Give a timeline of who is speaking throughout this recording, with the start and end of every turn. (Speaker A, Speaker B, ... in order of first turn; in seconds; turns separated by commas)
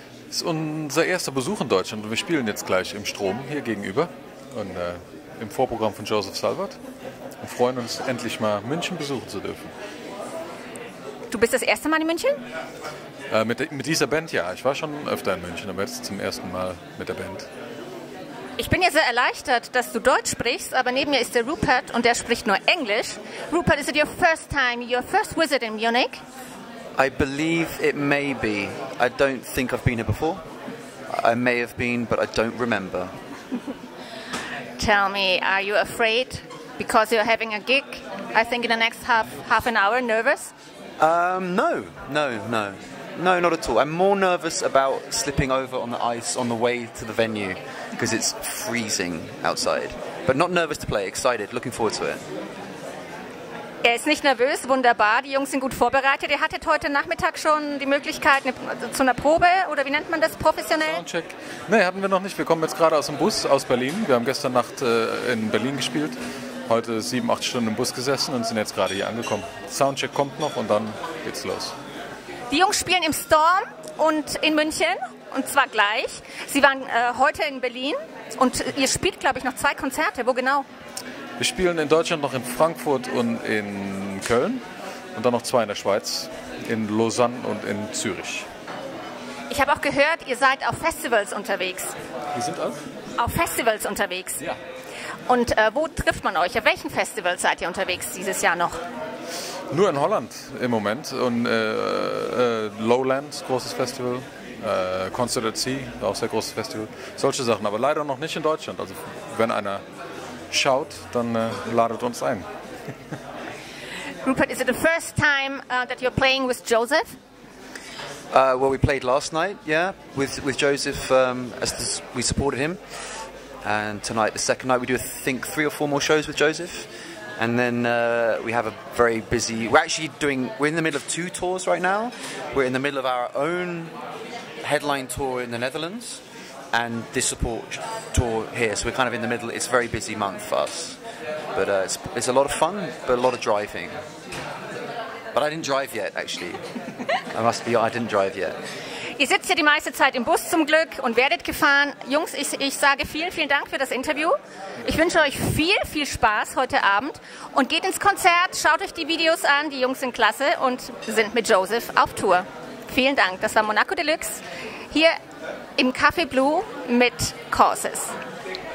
Speaker A: 0.3-6.8, Speaker A: 7.4-9.7, Speaker B: 11.3-12.4, Speaker A: 13.3-17.5, Speaker B: 18.6-26.2, Speaker C: 27.0-30.4, Speaker C: 31.1-33.1, Speaker B: 34.8-40.5, Speaker C: 41.0-52.3, Speaker B: 53.8-61.0, Speaker A: 60.8-66.2, Speaker A: 66.7-71.7, Speaker B: 72.5-80.7, Speaker A: 81.4-84.6, Speaker A: 85.2-88.5, Speaker B: 89.5-91.9, Speaker A: 92.3-92.8, Speaker B: 93.2-94.4, Speaker B: 95.3-98.8, Speaker A: 99.7-109.8, Speaker A: 110.5-112.5, Speaker B: 114.2-117.2, Speaker C: 118.3-122.8, Speaker C: 123.6-133.9, Speaker C: 134.6-141.0, Speaker C: 141.6-144.0, Speaker C: 145.3-146.6, Speaker C: 147.3-148.6, Speaker B: 149.2-165.2, Speaker B: 165.8-168.1